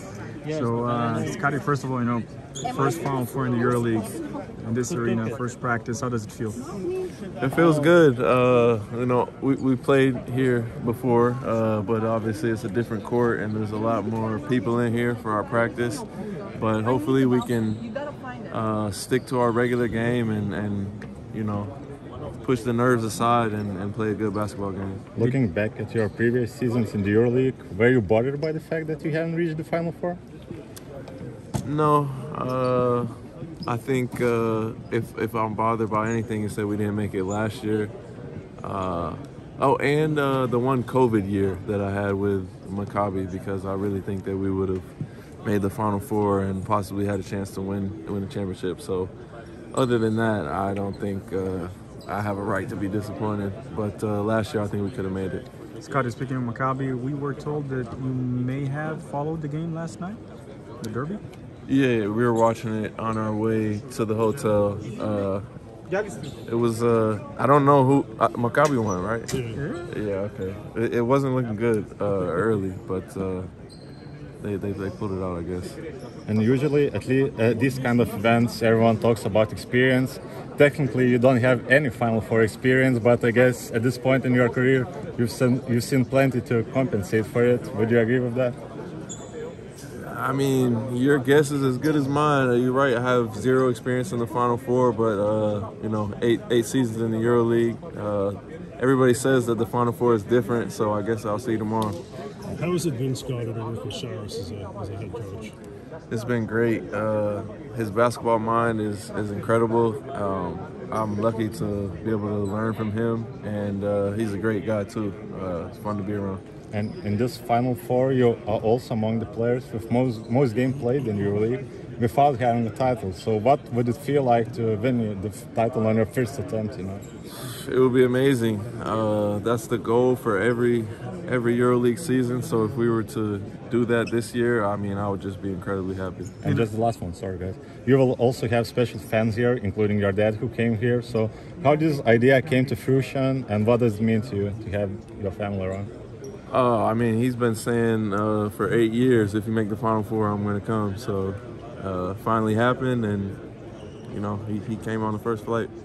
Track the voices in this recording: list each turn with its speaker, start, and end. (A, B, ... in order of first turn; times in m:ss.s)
0:00.5-0:06.6 A
0:07.4-0:17.9 B
0:18.5-0:21.8 B
0:22.4-0:25.1 B
0:25.2-0:30.2 C
0:31.6-0:33.1 B
0:33.7-0:37.9 B
0:38.6-0:44.9 B
0:45.4-0:49.1 B
0:49.7-0:55.5 B
0:55.8-1:00.2 A
1:00.8-1:01.2 A
1:01.7-1:05.5 B
1:05.9-1:06.2 A
1:06.5-1:09.3 B
1:09.3-1:09.6 D
1:09.6-1:09.9 A
1:09.9-1:13.5 B
1:14.4-1:15.8 B
1:16.3-1:28.6 C
1:30.0-1:42.0 B
1:42.5-1:45.6 D
1:46.1-1:56.4 B
1:56.7-2:07.0 C
2:07.3-2:16.4 B
2:16.4-2:25.9 C
2:16.4-2:16.7 A
2:26.5-2:33.4 B
2:34.1-2:35.7 B